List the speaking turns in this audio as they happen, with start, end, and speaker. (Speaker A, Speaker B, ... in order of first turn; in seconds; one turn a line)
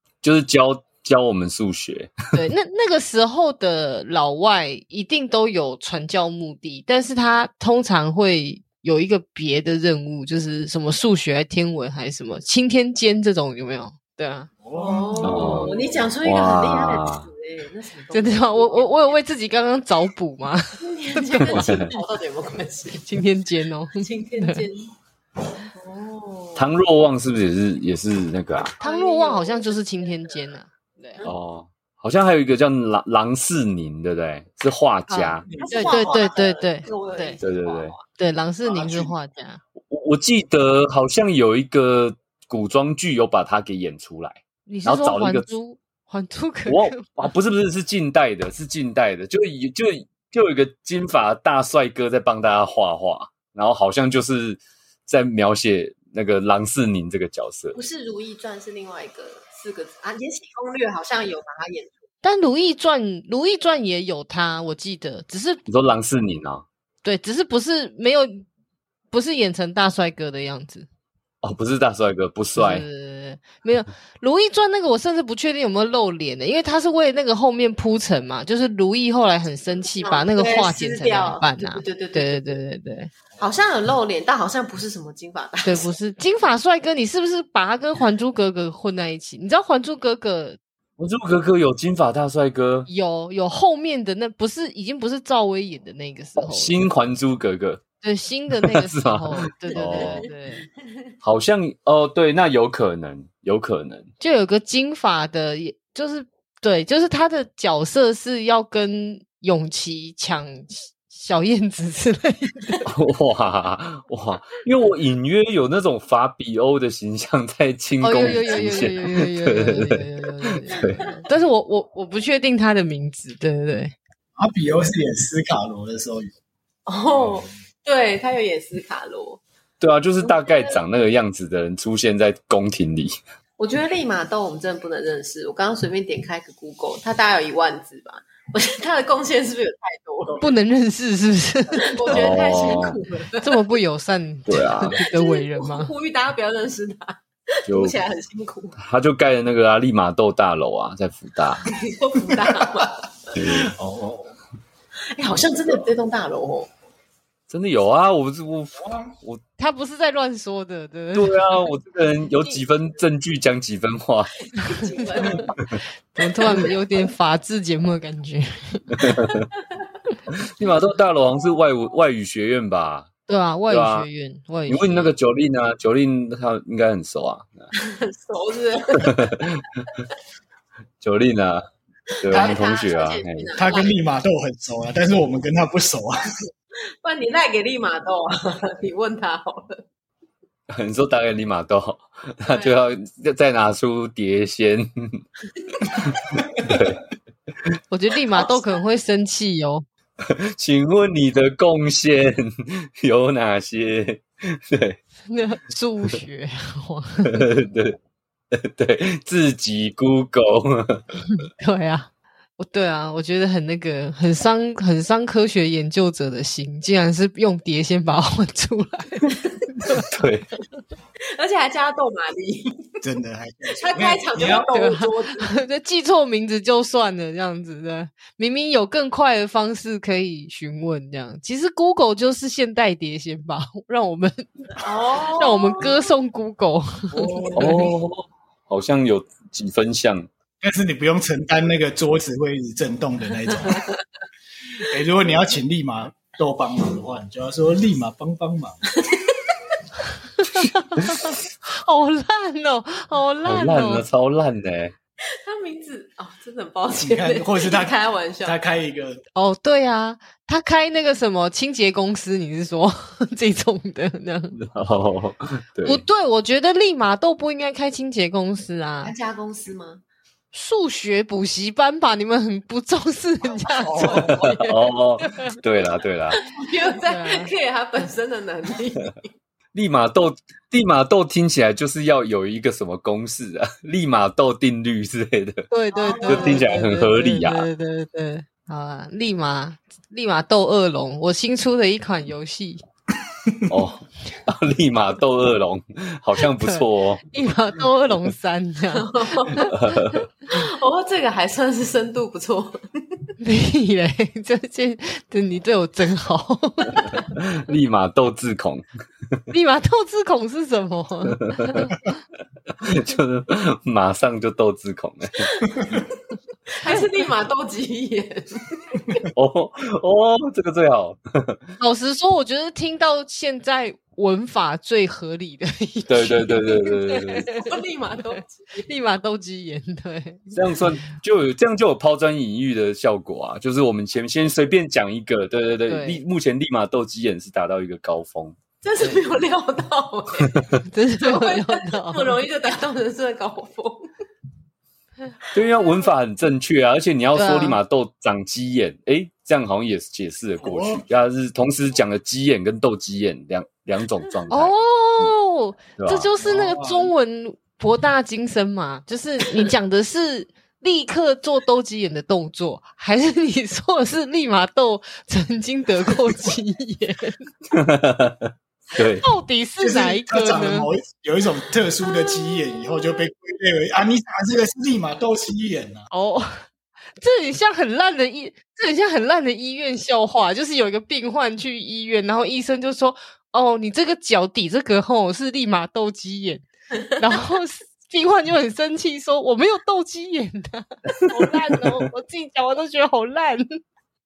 Speaker A: 0.2-2.5
Speaker B: 2.3-14.5
Speaker C: 14.6-15.8
Speaker D: 14.7-19.1
Speaker A: 15.2-17.3
Speaker B: 18.1-21.9
Speaker D: 20.8-23.1
Speaker A: 21.4-22.0
Speaker B: 22.9-24.6
Speaker D: 23.9-24.9
Speaker D: 25.7-26.7
Speaker A: 26.5-28.8
Speaker D: 28.8-30.2
Speaker B: 28.8-31.3
Speaker A: 31.2-35.6
Speaker B: 35.1-37.4
Speaker C: 35.5-36.2
Speaker D: 35.6-38.0
Speaker A: 37.4-38.0
Speaker B: 38.1-39.6
Speaker C: 38.6-39.1
Speaker A: 39.8-45.5
Speaker B: 44.7-47.3
Speaker A: 46.7-57.8
Speaker D: 57.7-61.9
Speaker B: 62.2-65.6
Speaker A: 65.7-66.7
Speaker B: 67.0-68.5
Speaker B: 69.1-70.9
Speaker A: 71.4-72.8
Speaker B: 72.5-83.1
Speaker D: 80.0-82.6
Speaker D: 83.4-85.9
Speaker B: 85.6-90.6
Speaker A: 91.0-92.9
Speaker B: 92.9-96.8
Speaker A: 96.4-97.8
Speaker B: 98.0-100.7
Speaker A: 98.6-100.3
Speaker D: 99.8-100.2
Speaker A: 101.2-104.1
Speaker B: 104.2-112.8
Speaker A: 112.8-121.1
Speaker B: 118.0-123.9
Speaker D: 118.3-118.6
Speaker C: 124.4-126.3
Speaker D: 126.9-129.4
Speaker C: 127.1-127.5
Speaker A: 129.8-133.1
Speaker D: 130.2-130.8
Speaker D: 133.6-140.4
Speaker B: 140.4-142.2
Speaker D: 141.8-143.6
Speaker A: 142.1-143.0
Speaker B: 143.4-145.9
Speaker A: 144.5-145.0
Speaker D: 145.0-148.8
Speaker A: 147.7-148.0
Speaker A: 148.8-151.6
Speaker D: 151.7-152.9
Speaker A: 153.3-153.7
Speaker C: 153.4-154.3
Speaker D: 155.1-156.7
Speaker A: 157.5-159.4
Speaker C: 158.8-159.1
Speaker B: 159.6-161.6
Speaker A: 161.1-164.3
Speaker D: 164.6-165.5
Speaker B: 166.1-168.9
Speaker D: 166.4-166.7
Speaker A: 168.9-169.4
Speaker A: 170.3-173.1
Speaker B: 173.3-175.1
Speaker A: 173.7-174.1
Speaker A: 174.7-177.7
Speaker D: 177.7-179.4
Speaker A: 179.1-179.6
Speaker A: 181.0-181.6
Speaker A: 182.2-183.5
Speaker D: 182.2-183.9
Speaker C: 183.6-186.3
Speaker D: 187.0-189.8
Speaker A: 190.7-195.2
Speaker D: 192.5-192.8
Speaker A: 196.0-197.0
Speaker B: 197.9-199.8
Speaker A: 200.2-205.0
Speaker B: 205.3-207.5
Speaker A: 207.2-208.0
Speaker A: 208.5-211.2
Speaker B: 211.4-220.0
Speaker A: 220.0-220.5
Speaker D: 221.3-222.9
Speaker C: 223.0-224.7
Speaker D: 223.8-225.5
Speaker B: 224.7-234.7
Speaker D: 234.8-236.0
Speaker B: 235.4-237.9
Speaker C: 237.1-237.9
Speaker A: 237.5-240.3
Speaker C: 240.6-243.9
Speaker C: 244.8-248.8
Speaker B: 250.4-254.1
Speaker A: 253.4-254.9
Speaker D: 255.4-258.6
Speaker C: 256.9-259.2
Speaker B: 259.3-264.6
Speaker A: 264.5-266.0
Speaker B: 265.8-269.1
Speaker D: 269.0-270.0
Speaker B: 270.5-275.5
Speaker C: 273.8-274.4
Speaker A: 274.1-276.4
Speaker D: 276.4-279.3
Speaker B: 277.1-277.5
Speaker A: 279.7-285.6
Speaker B: 285.7-292.8
Speaker D: 285.9-286.7
Speaker A: 286.3-287.7
Speaker A: 293.7-297.2
Speaker B: 296.5-299.8
Speaker D: 298.9-299.5
Speaker A: 299.5-300.3
Speaker D: 300.5-302.7
Speaker B: 303.4-307.2
Speaker A: 307.1-308.9
Speaker B: 309.5-311.9
Speaker A: 311.3-311.9
Speaker A: 312.8-315.5
Speaker D: 316.7-319.2
Speaker A: 319.3-321.6
Speaker B: 321.8-327.6
Speaker A: 326.1-327.5
Speaker D: 327.5-328.8
Speaker B: 328.8-330.8
Speaker A: 330.5-338.6
Speaker B: 335.9-336.2
Speaker D: 338.8-340.5
Speaker B: 340.8-342.4
Speaker D: 341.2-344.0
Speaker A: 345.5-355.3
Speaker B: 347.3-347.8
Speaker C: 350.6-351.0
Speaker B: 354.5-367.4
Speaker A: 356.0-356.3
Speaker C: 356.4-357.1
Speaker A: 367.7-369.3
Speaker B: 369.2-370.9
Speaker C: 369.8-376.1
Speaker B: 376.1-376.6
Speaker B: 377.2-393.6
Speaker A: 391.2-392.0